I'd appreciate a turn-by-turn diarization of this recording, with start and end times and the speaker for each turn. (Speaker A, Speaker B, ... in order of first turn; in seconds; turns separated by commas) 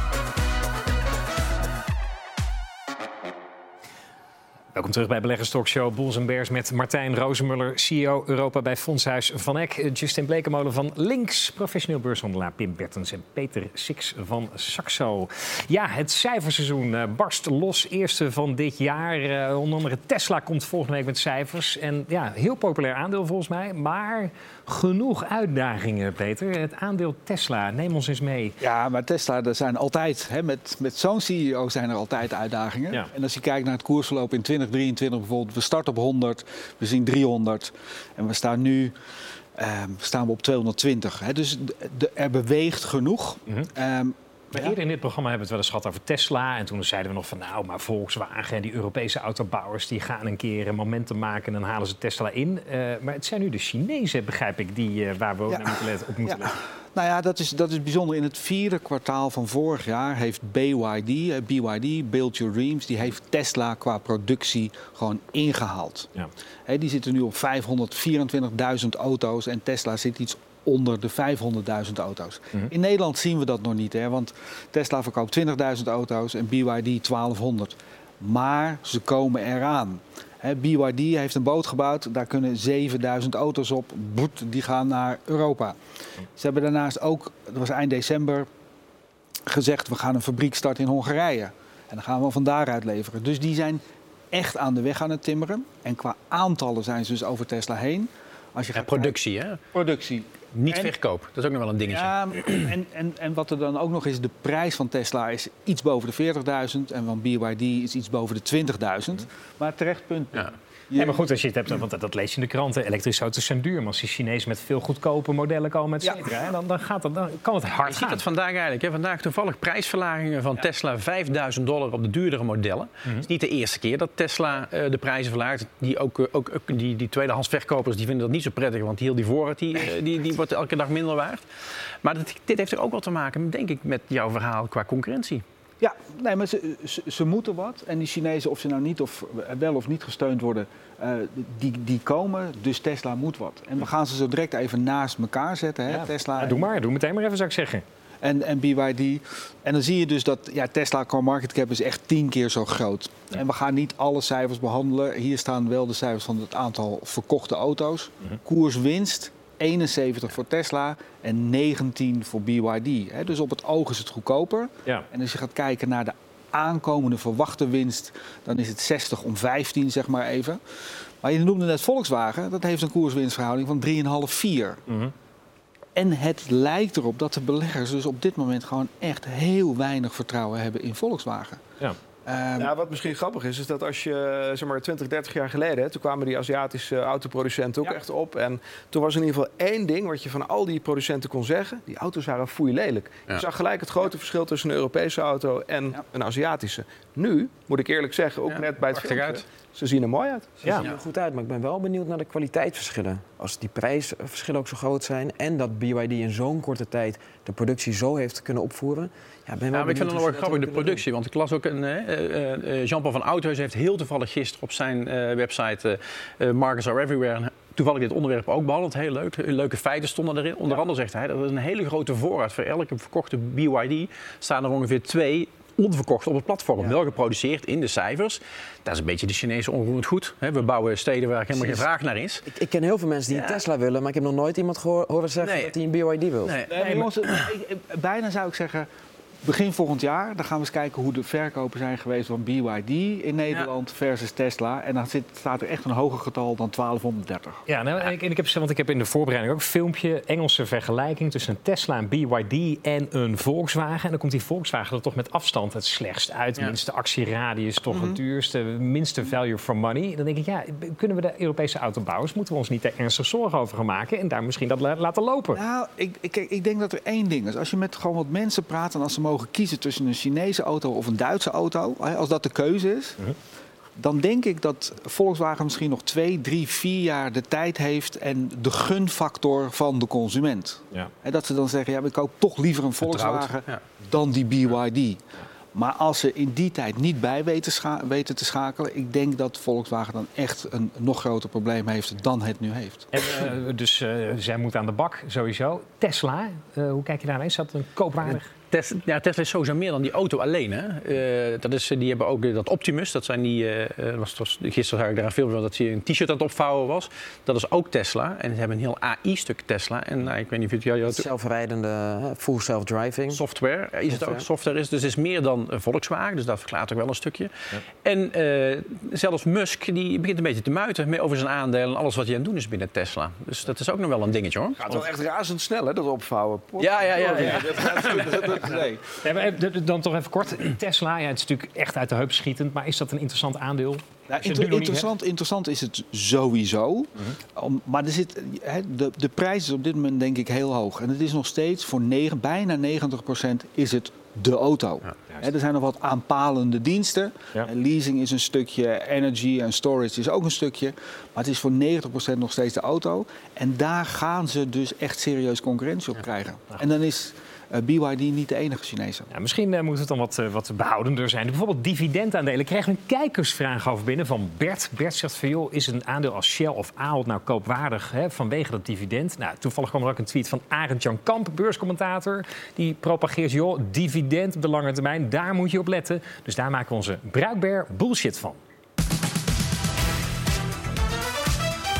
Speaker A: 4.8-28.6, Speaker B: 28.6-38.9, Speaker B: 39.6-44.8, Speaker A: 44.5-56.5, Speaker B: 55.5-66.1, Speaker B: 66.7-85.8, Speaker B: 86.3-88.5, Speaker B: 89.5-99.2, Speaker C: 98.8-99.6, Speaker B: 99.7-101.0, Speaker C: 100.5-102.7, Speaker B: 101.9-111.2, Speaker A: 111.0-118.2, Speaker B: 116.0-116.3, Speaker C: 117.9-131.4, Speaker C: 132.0-135.4, Speaker B: 135.8-146.7, Speaker A: 145.9-147.8, Speaker B: 148.2-174.8, Speaker A: 174.9-175.1, Speaker B: 176.0-181.6, Speaker B: 182.3-182.7, Speaker D: 182.6-200.6, Speaker C: 198.5-199.4, Speaker E: 200.7-211.0, Speaker C: 209.7-232.5, Speaker E: 232.5-236.6, Speaker C: 233.3-233.6, Speaker C: 235.4-235.7, Speaker C: 236.4-237.5, Speaker B: 236.7-238.9, Speaker B: 239.4-247.6, Speaker A: 247.7-265.6, Speaker B: 257.9-258.2, Speaker B: 265.5-273.2, Speaker B: 274.0-293.1, Speaker C: 283.0-283.8, Speaker A: 293.1-298.5, Speaker C: 298.7-311.2, Speaker E: 311.1-313.4, Speaker C: 313.3-317.5, Speaker E: 314.1-314.5, Speaker C: 318.0-325.0, Speaker D: 324.8-328.8, Speaker C: 326.8-328.6, Speaker B: 327.7-329.1, Speaker A: 329.2-335.1, Speaker B: 334.3-359.3, Speaker A: 359.3-378.6